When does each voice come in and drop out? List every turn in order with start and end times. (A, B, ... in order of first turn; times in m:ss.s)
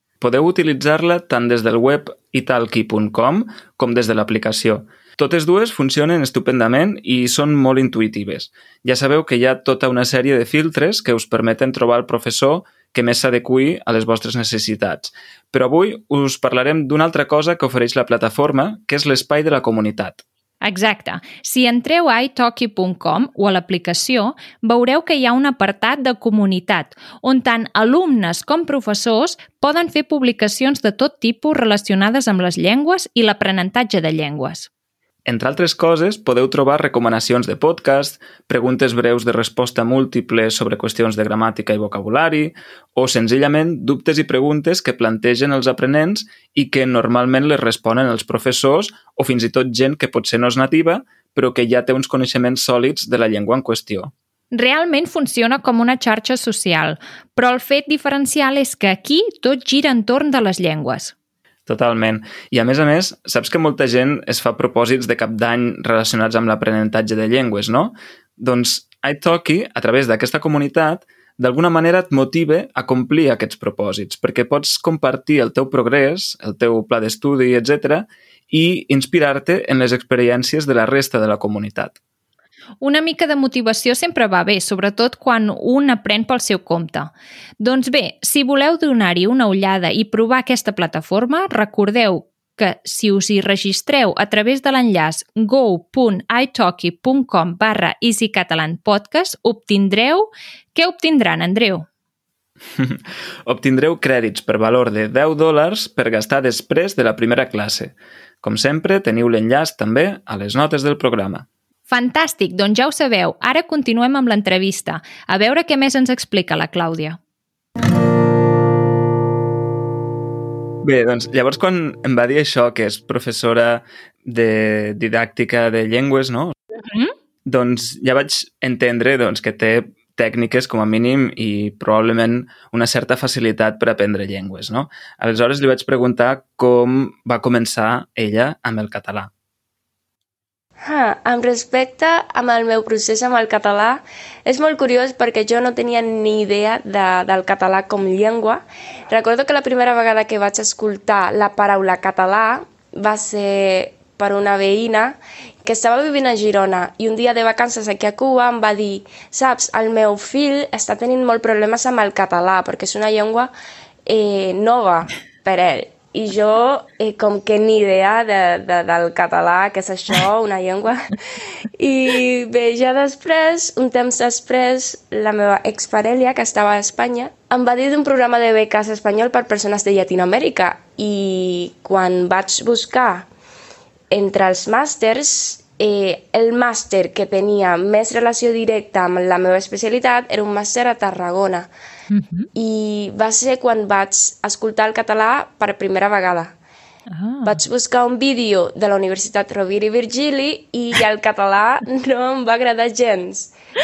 0:00.2-0:20.2 A
0:20.6-0:34.7 B
0:35.2-0:54.1 A
0:54.5-1:01.1 B
1:01.7-1:22.0 A
1:22.8-1:41.9 B
1:42.8-1:51.5 A
1:51.9-1:57.2 B
2:00.8-2:06.5 A
2:06.8-2:07.1 B
2:07.5-2:19.3 A
2:20.8-2:43.5 C
2:44.1-2:51.2 C
2:51.8-3:03.3 C
3:04.1-3:11.7 C
3:12.1-3:12.5 B
3:12.6-3:16.5 C
3:17.1-3:17.6 B
3:17.4-3:23.5 C